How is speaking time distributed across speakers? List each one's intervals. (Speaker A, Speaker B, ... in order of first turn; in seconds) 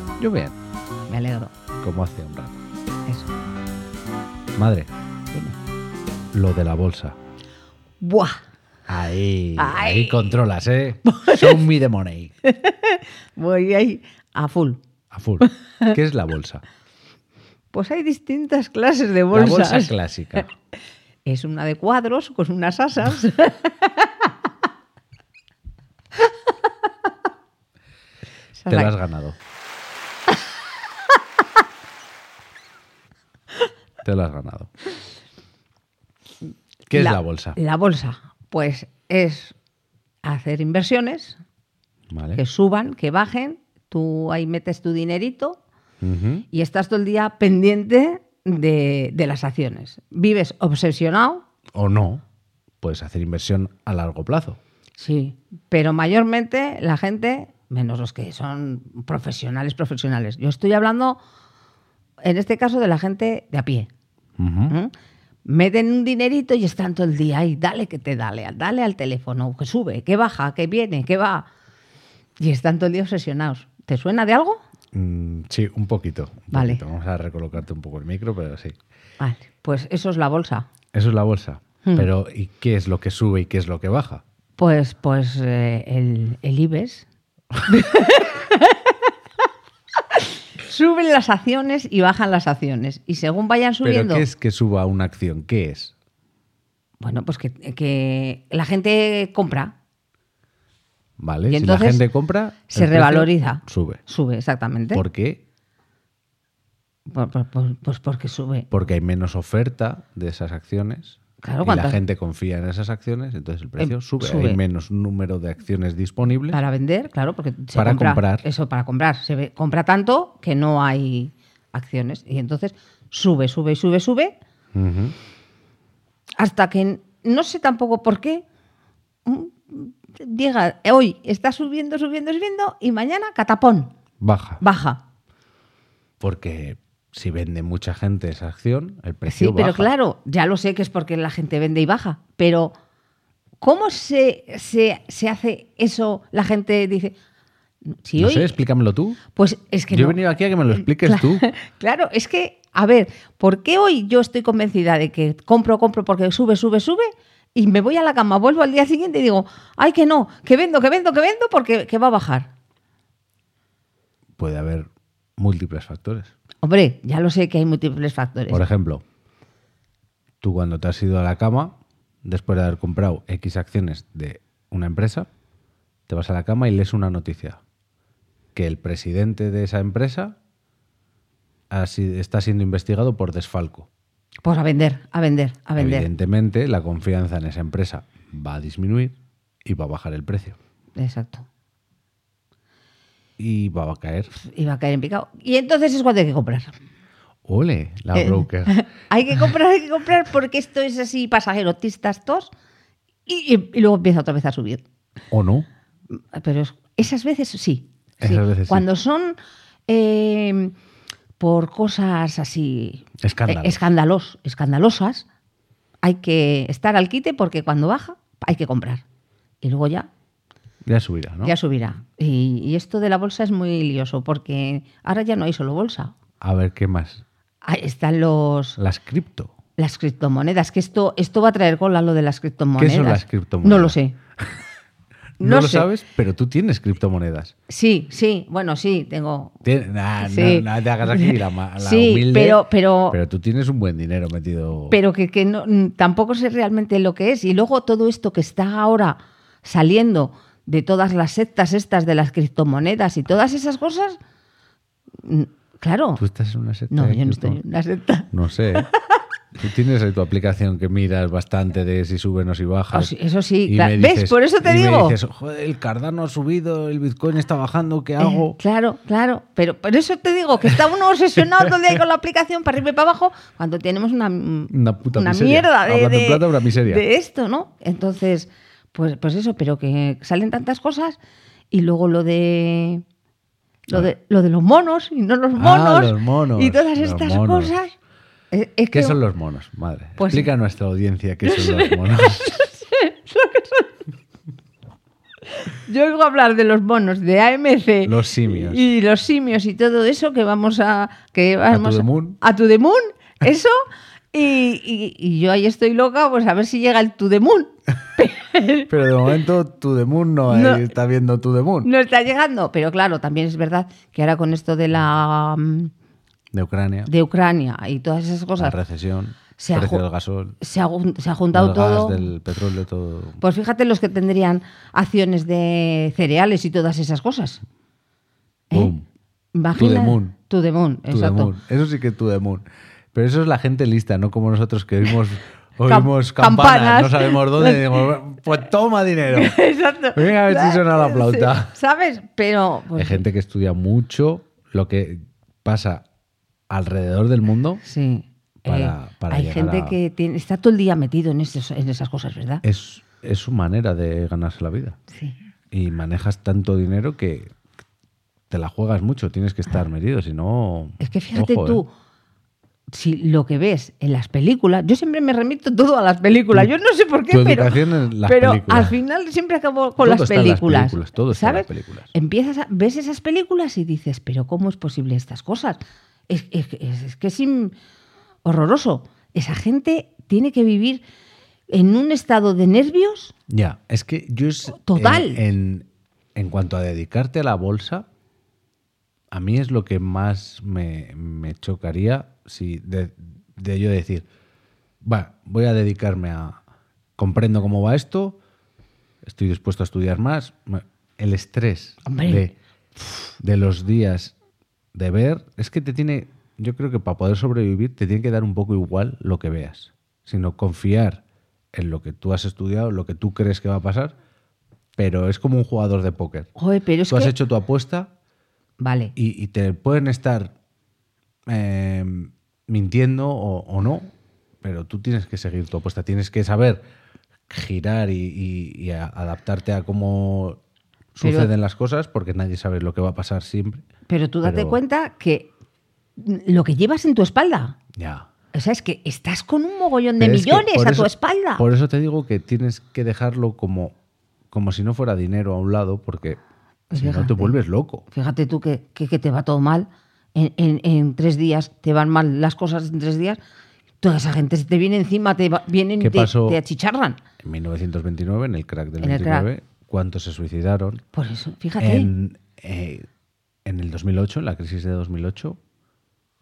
Speaker A: 0.2-0.6, 1.8-2.6, 4.5-4.9, 6.3-7.2, 8.9-12.3, 15.1-16.6, 19.3-20.5, 28.7-29.4, 34.0-34.7, 36.9-37.6, 42.1-42.4, 46.0-46.5, 51.7-52.2, 52.8-54.6, 64.4-64.7, 74.9-78.8, 80.9-84.2, 93.8-95.9, 101.2-104.0, 104.9-105.4, 108.7-116.6, 117.8-118.5, 124.7-125.2, 134.2-134.6, 136.2-139.9, 148.2-149.2, 149.9-151.5, 164.4-166.3, 168.5-169.0, 170.4-175.3, 176.1-177.6, 178.6-180.3, 181.7-183.9, 185.8-190.6, 193.4-194.3, 197.5-198.8, 205.3-205.7, 208.2-208.9, 213.2-213.9, 220.8-221.6, 226.4-227.2, 228.8-229.5, 232.8-234.0, 235.4-237.5, 239.6-245.0, 256.2-257.6, 258.3-258.9, 259.6-263.1, 263.7-268.6, 274.7-277.0, 285.6-287.7, 288.9-292.6, 298.1-298.8, 301.7-302.4, 308.9-311.9, 316.5-317.1, 318.6-320.6, 321.5-323.4, 328.7-329.1, 329.8-330.4, 331.1-339.6, 340.1-341.7, 343.0-346.1, 346.7-347.8, 348.6-350.0, 352.6-355.0, 355.7-357.5, 358.5-361.8, 367.3-369.0, 370.0-372.1, 383.5-388.1, 389.3-394.3, 395.0-396.6, 397.2-398.4, 399.2-402.6, 403.4-404.4, 404.9-411.2, 411.7-414.1, 415.0-416.5, 417.1-418.1, 419.2-420.5, 421.5-426.8, 427.5-430.6, 431.1-433.8, 434.4-434.8, 437.9-438.3, 440.2-443.9, 444.5-446.4, 446.9-448.1, 456.0-456.6, 457.4-461.0, 461.8-463.1, 463.6-465.6
Speaker B: 1.1-1.5, 8.0-8.4, 9.6-10.4, 11.1-11.7, 12.4-14.8, 15.4-16.0, 17.7-19.9, 21.3-24.3, 28.6-28.9, 36.9-39.5, 40.2-41.4, 42.4-45.6, 46.5-51.4, 55.0-61.2, 62.2-63.9, 65.5-71.5, 72.4-74.6, 76.5-76.8, 79.2-80.7, 84.6-87.1, 87.7-89.1, 90.1-94.3, 97.0-99.8, 101.5-102.0, 102.7-105.0, 107.1-108.7, 111.4-112.0, 113.8-114.6, 116.5-124.3, 126.4-128.4, 129.2-133.9, 134.6-135.0, 139.3-142.7, 143.6-147.2, 147.9-148.6, 149.3-150.2, 150.7-162.5, 166.6-168.6, 184.4-186.1, 191.0-191.5, 194.3-196.7, 198.2-202.5, 203.3-204.8, 206.3-209.4, 209.9-210.7, 211.4-215.3, 216.0-219.0, 219.6-220.1, 221.4-226.1, 227.6-228.8, 229.8-234.2, 235.4-235.9, 237.7-239.6, 240.2-243.2, 244.9-254.2, 255.2-256.2, 256.9-259.0, 262.9-265.2, 268.2-281.2, 281.7-283.0, 283.9-287.9, 288.5-289.2, 290.2-290.5, 291.4-293.9, 295.6-308.9, 310.5-310.9, 311.8-315.9, 317.1-318.8, 319.6-320.0, 320.6-322.3, 323.4-327.6, 329.5-331.5, 335.9-338.1, 339.3-343.2, 347.8-352.6, 361.0-361.9, 362.9-377.8, 378.4-381.0, 381.7-383.3, 384.7-385.4, 402.1-402.5, 416.6-417.3, 418.8-419.1, 431.2-431.5, 434.1-435.5, 436.2-437.8, 438.5-441.6, 446.9-447.6, 448.1-453.4, 454.0-457.2, 459.0-459.5, 461.1-462.1